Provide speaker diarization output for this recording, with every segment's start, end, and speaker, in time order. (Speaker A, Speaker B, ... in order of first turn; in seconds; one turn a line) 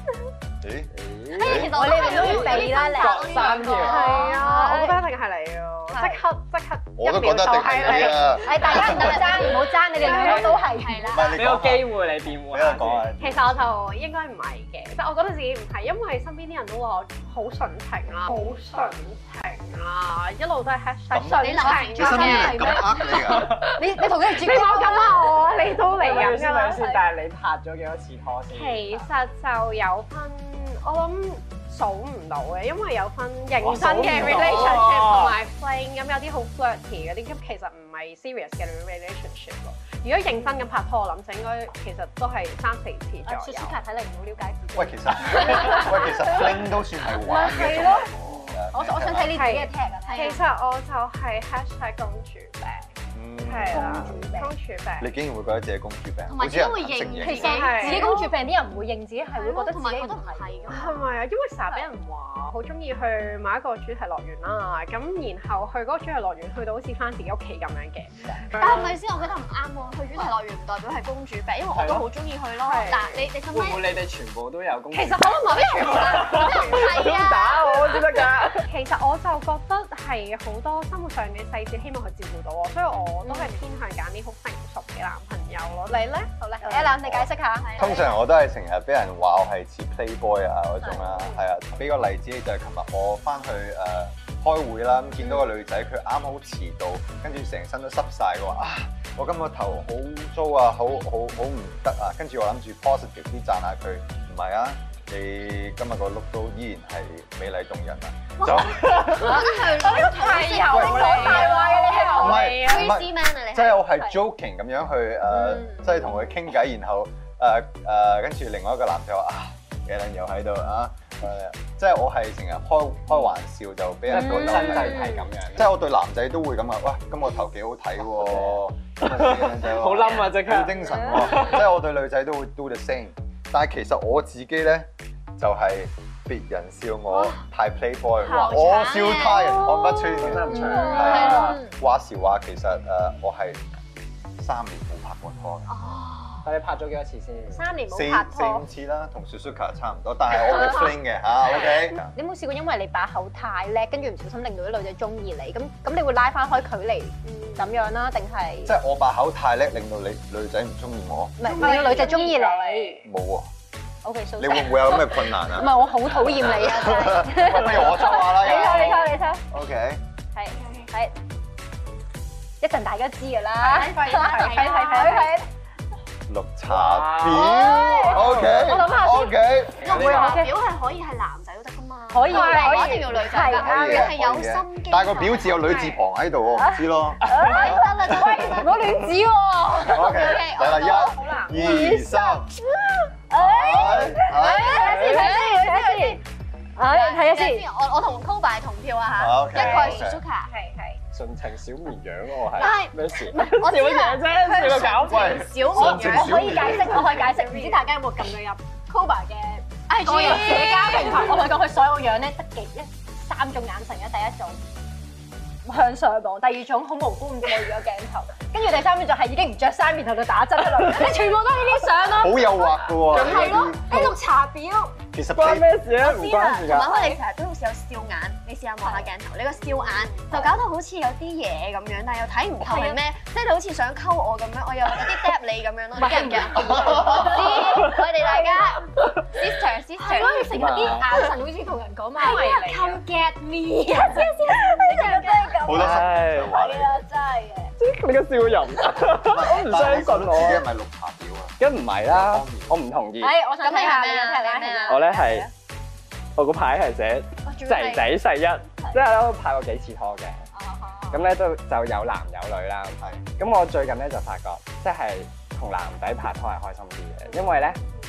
Speaker A: 0.6-2.0
Speaker B: 0.9-4.2
Speaker C: 1.4-4.5
Speaker D: 1.6-5.0
Speaker E: 3.8-8.5
Speaker C: 5.9-6.2
Speaker A: 7.0-9.3
Speaker D: 8.4-11.2
Speaker C: 8.5-11.4
Speaker E: 10.0-10.4
Speaker B: 10.1-10.6
Speaker A: 11.1-13.7
Speaker B: 11.3-13.1
Speaker E: 13.2-27.0
Speaker A: 21.1-23.7
Speaker C: 21.4-23.1
Speaker D: 22.0-25.7
Speaker B: 25.7-29.1
Speaker D: 26.8-27.0
Speaker E: 28.5-43.8
Speaker B: 33.6-35.4
Speaker D: 43.2-48.1
Speaker A: 44.7-49.5
Speaker B: 48.3-48.6
Speaker D: 48.7-50.4
Speaker E: 49.2-52.9
Speaker C: 50.1-50.4
Speaker A: 53.1-54.4
Speaker E: 53.4-55.1
Speaker D: 53.7-54.5
Speaker A: 55.0-57.7
Speaker C: 56.3-58.4
Speaker D: 57.2-60.8
Speaker E: 57.4-58.2
Speaker C: 59.3-61.1
Speaker E: 60.7-69.0
Speaker C: 68.5-74.0
Speaker B: 71.7-72.1
Speaker E: 72.6-73.3
Speaker B: 73.5-78.7
Speaker E: 74.9-77.1
Speaker C: 75.2-77.9
Speaker E: 77.8-78.1
Speaker E: 78.6-87.0
Speaker D: 83.2-83.6
Speaker D: 86.5-87.7
Speaker A: 87.0-109.5
Speaker C: 87.6-88.2
Speaker D: 90.8-91.1
Speaker C: 108.4-113.9
Speaker D: 109.1-112.5
Speaker E: 109.8-112.9
Speaker A: 110.7-143.6
Speaker D: 115.3-116.1
Speaker B: 124.1-125.7
Speaker D: 124.1-125.3
Speaker B: 128.2-131.7
Speaker D: 130.8-131.2
Speaker C: 137.1-137.4
Speaker C: 138.2-139.9
Speaker B: 140.2-141.6
Speaker D: 140.4-141.7
Speaker C: 141.0-141.6
Speaker A: 144.4-145.8
Speaker C: 145.7-146.5
Speaker B: 146.4-147.6
Speaker D: 147.5-148.7
Speaker A: 147.9-152.1
Speaker D: 152.1-158.8
Speaker E: 157.2-157.8
Speaker A: 158.7-161.8
Speaker D: 161.4-163.0
Speaker E: 161.4-163.1
Speaker A: 163.0-163.5
Speaker D: 164.0-169.4
Speaker A: 164.4-170.0
Speaker C: 168.7-168.9
Speaker D: 170.3-171.1
Speaker D: 172.6-175.5
Speaker C: 173.6-175.3
Speaker E: 173.8-175.3
Speaker A: 176.3-179.9
Speaker B: 176.7-178.8
Speaker D: 177.3-180.5
Speaker C: 179.8-185.7
Speaker B: 179.8-180.4
Speaker D: 182.1-184.2
Speaker E: 182.3-183.0
Speaker A: 183.4-188.7
Speaker E: 185.6-186.0
Speaker D: 186.6-196.2
Speaker C: 187.5-188.8
Speaker A: 189.9-192.5
Speaker C: 190.0-191.3
Speaker E: 191.2-191.5
Speaker A: 193.3-195.1
Speaker C: 194.5-196.2
Speaker E: 194.7-195.7
Speaker B: 194.8-195.3
Speaker D: 196.8-197.7
Speaker C: 196.9-200.5
Speaker A: 199.2-200.2
Speaker E: 199.6-201.0
Speaker B: 201.1-205.6
Speaker C: 202.6-205.6
Speaker E: 204.5-207.9
Speaker A: 205.0-207.3
Speaker D: 205.7-214.6
Speaker C: 210.0-211.5
Speaker D: 215.7-225.0
Speaker A: 222.1-224.2
Speaker B: 223.1-223.7
Speaker A: 225.1-225.7
Speaker B: 225.3-227.1
Speaker C: 226.0-241.0
Speaker D: 226.9-227.2
Speaker D: 230.2-230.5
Speaker D: 232.6-233.0
Speaker D: 236.0-238.8
Speaker A: 236.7-237.2
Speaker D: 240.0-247.7
Speaker B: 240.5-241.1
Speaker E: 242.2-243.0
Speaker C: 242.2-242.9
Speaker C: 244.2-245.6
Speaker A: 245.6-247.0
Speaker B: 245.7-246.6
Speaker B: 247.8-250.7
Speaker A: 249.2-252.8
Speaker B: 251.6-253.4
Speaker D: 253.2-255.5
Speaker C: 253.6-255.1
Speaker B: 254.9-255.5
Speaker B: 256.4-260.4
Speaker C: 257.5-258.1
Speaker D: 260.5-261.3
Speaker B: 261.1-267.8
Speaker A: 263.0-263.2